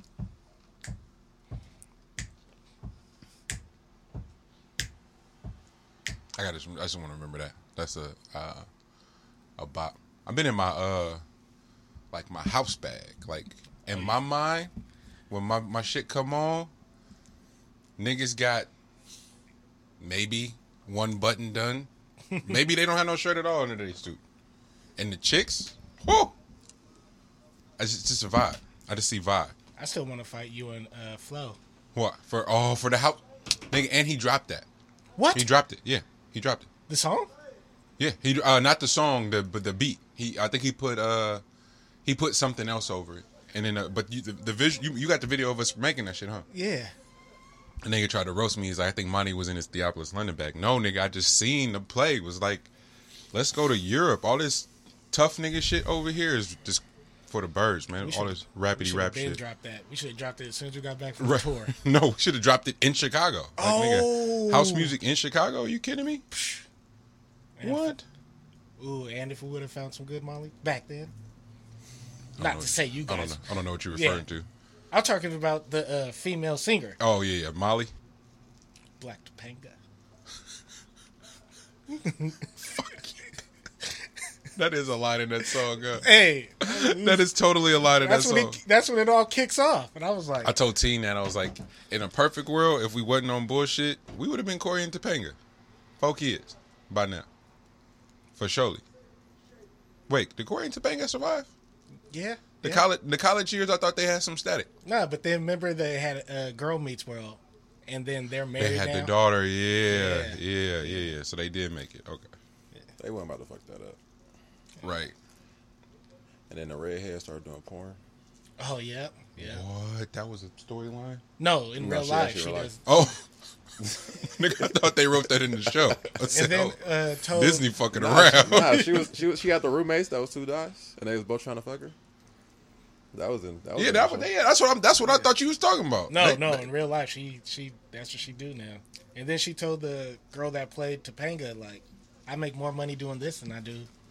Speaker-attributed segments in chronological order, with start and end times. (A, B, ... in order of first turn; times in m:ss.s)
0:06.4-0:08.7 A
0:09.6-0:11.2 A
0:12.1-0:14.7 A
0:15.3-0:16.7 A
0:18.0-0:18.7 A
0:20.0-0:21.9 A
0:22.3-0:22.6 B
0:22.4-0:24.2 A
0:25.0-0:26.3 A
0:27.8-0:29.5 A
0:29.8-0:31.6 B
0:32.0-0:34.7 A
0:35.2-0:35.5 B
0:35.3-0:36.7 A
0:36.9-0:37.3 B
0:38.0-0:41.4 A
0:42.0-0:46.4 A
0:46.5-0:46.9 B
0:47.8-0:52.7 A
0:53.3-0:59.4 A
0:58.0-1:01.7 B
1:01.2-1:06.2 A
1:03.6-1:04.9 B
1:06.3-1:06.6 B
1:07.6-1:08.0 B
1:07.6-1:08.0 A
1:08.8-1:11.1 B
1:12.4-1:14.5 A
1:12.4-1:14.2 B
1:14.9-1:17.0 B
1:17.0-1:17.9 A
1:19.0-1:19.8 B
1:21.9-1:22.5 B
1:22.6-1:23.2 A
1:24.6-1:26.1 A
1:26.0-1:27.3 B
1:26.6-1:28.6 A
1:27.9-1:30.5 B
1:30.4-1:35.4 A
1:36.0-1:37.3 A
1:38.4-1:38.8 A
1:40.1-1:41.5 A
1:42.1-1:42.8 B
1:42.6-1:44.7 A
1:44.8-1:49.1 B
1:48.6-1:52.3 A
1:49.9-1:51.1 B
1:53.0-1:54.0 C
1:54.8-1:55.2 A
1:56.5-1:58.0 C
1:58.6-1:59.6 B
1:59.4-2:01.2 A
2:01.4-2:02.8 B
2:01.8-2:02.7 C
2:02.9-2:03.3 A
2:03.8-2:04.9 C
2:03.8-2:08.8 A
2:05.4-2:06.0 C
2:06.2-2:07.7 B
2:07.9-2:12.0 C
2:08.6-2:09.0 B
2:13.1-2:14.3 C
2:13.8-2:16.7 A
2:16.1-2:23.9 B